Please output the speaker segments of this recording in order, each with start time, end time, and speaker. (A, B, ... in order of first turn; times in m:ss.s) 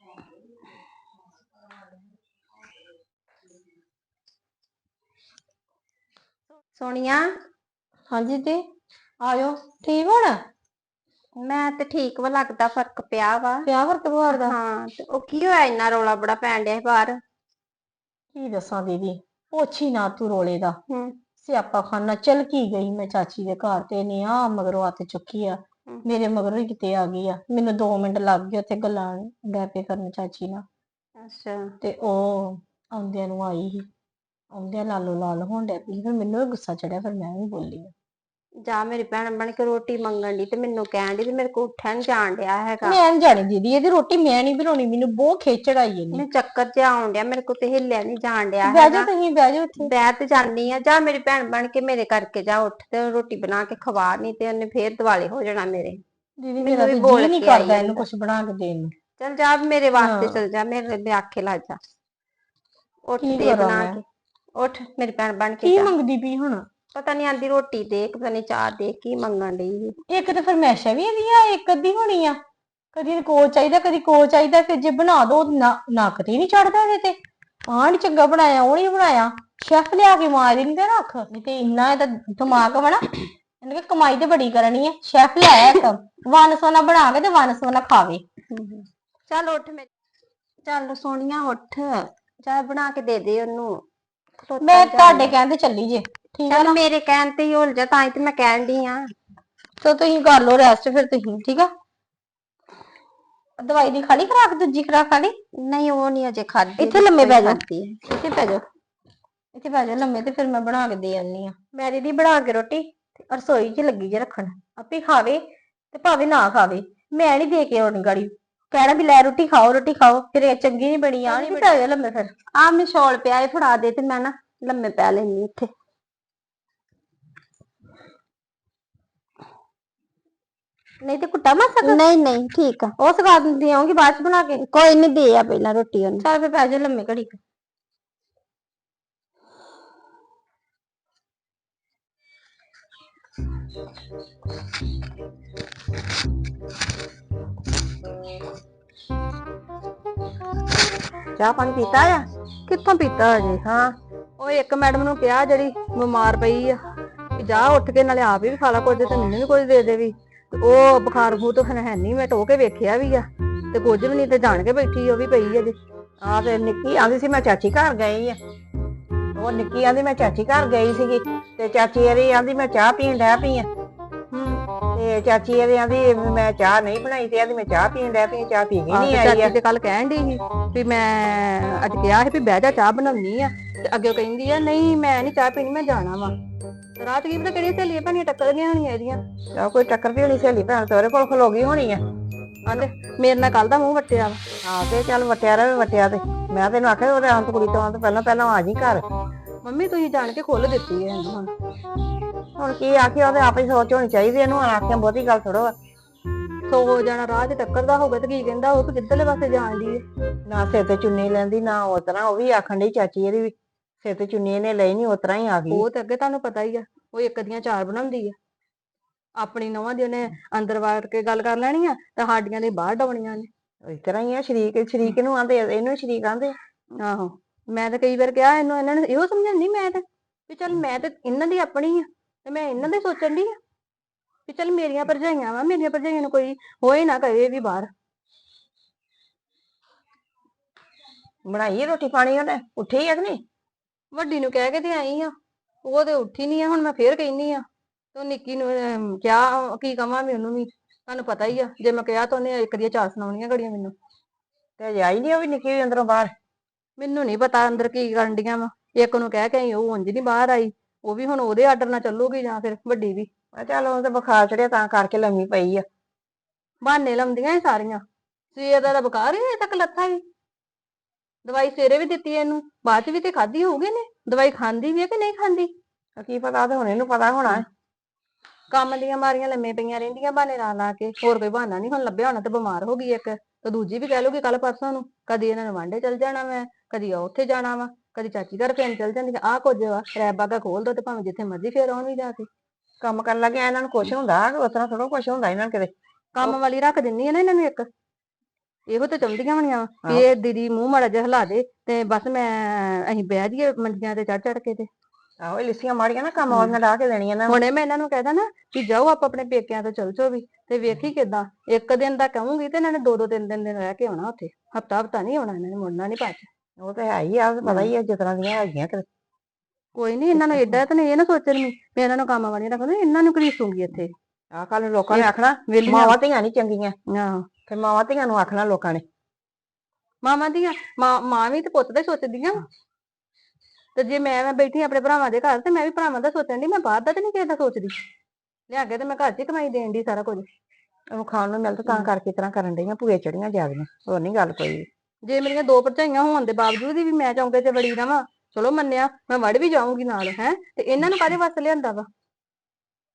0:06.8-0:07.3 A
0:08.1-0:08.6 B
0:09.2-0:10.4 B
0:11.4-0:13.7 A
0:13.6-0:14.5 B
0:14.3-0:17.2 A
0:18.3-0:20.8 B
0:20.9-0:21.1 A
0:21.4-0:30.6 B
0:31.2-0:31.6 A
0:31.8-0:33.8 B
0:34.5-0:37.9 B
0:38.6-0:43.0 A
0:42.8-0:46.2 B
0:46.1-0:49.1 A
0:48.6-0:49.9 B
0:49.8-0:56.0 A
0:56.4-0:58.9 B
0:56.6-0:58.0 A
0:59.2-1:01.8 A
1:00.0-1:00.4 B
1:03.1-1:04.0 A
1:03.2-1:04.0 B
1:04.6-1:05.9 A
1:05.6-1:06.6 B
1:06.9-1:10.0 A
1:10.1-1:12.4 B
1:12.9-1:17.2 B
1:17.7-1:23.0 B
1:23.6-1:28.2 B
1:28.5-1:29.9 A
1:30.6-1:33.8 A
1:34.4-1:35.3 A
1:34.6-1:36.8 B
1:36.5-1:39.0 A
1:39.8-1:41.7 B
1:43.6-1:45.4 B
1:45.6-1:48.1 A
1:46.8-1:48.6 B
1:49.5-2:02.3 B
2:01.3-2:01.7 A
2:02.6-2:05.7 A
2:11.0-2:12.0 B
2:11.8-2:12.9 A
2:13.0-2:14.6 B
2:14.6-2:16.2 A
2:16.2-2:17.4 B
2:31.4-2:32.2 C
2:32.7-2:33.6 D
2:33.6-2:33.9 C
2:34.4-2:36.8 D
2:37.4-2:45.7 D
2:46.2-2:48.4 C
2:49.4-2:53.7 C
2:54.3-2:54.6 D
2:54.9-2:59.5 C
2:58.9-3:06.3 D
3:07.0-3:09.2 D
3:09.6-3:12.0 C
3:12.6-3:14.4 D
3:14.6-3:19.0 C
3:19.6-3:21.5 D
3:22.6-3:25.7 C
3:26.7-3:30.0 D
3:30.4-3:35.8 C
3:35.7-3:38.4 D
3:39.4-3:43.5 D
3:43.8-3:46.5 C
3:47.0-3:53.5 D
3:54.5-3:57.9 D
4:01.5-4:03.4 C
4:04.1-4:05.3 D
4:05.8-4:07.6 D
4:08.1-4:13.9 D
4:14.8-4:16.3 C
4:17.0-4:23.3 D
4:23.5-4:25.8 C
4:26.8-4:28.0 D
4:28.5-4:30.2 D
4:31.4-4:35.7 D
4:36.2-4:37.6 C
4:38.7-4:52.5 D
4:53.0-4:56.6 C
4:56.4-4:57.9 D
4:58.9-5:04.9 D
5:05.4-5:07.6 C
5:06.5-5:06.7 D
5:07.5-5:16.5 D
5:16.8-5:19.0 C
5:20.0-5:24.1 D
5:24.5-5:26.9 C
5:25.1-5:26.2 D
5:27.1-5:27.4 D
5:27.7-5:29.0 C
5:30.2-5:32.6 D
5:34.0-5:38.0 D
5:38.7-5:40.5 D
5:41.1-5:44.9 C
5:45.2-5:52.0 D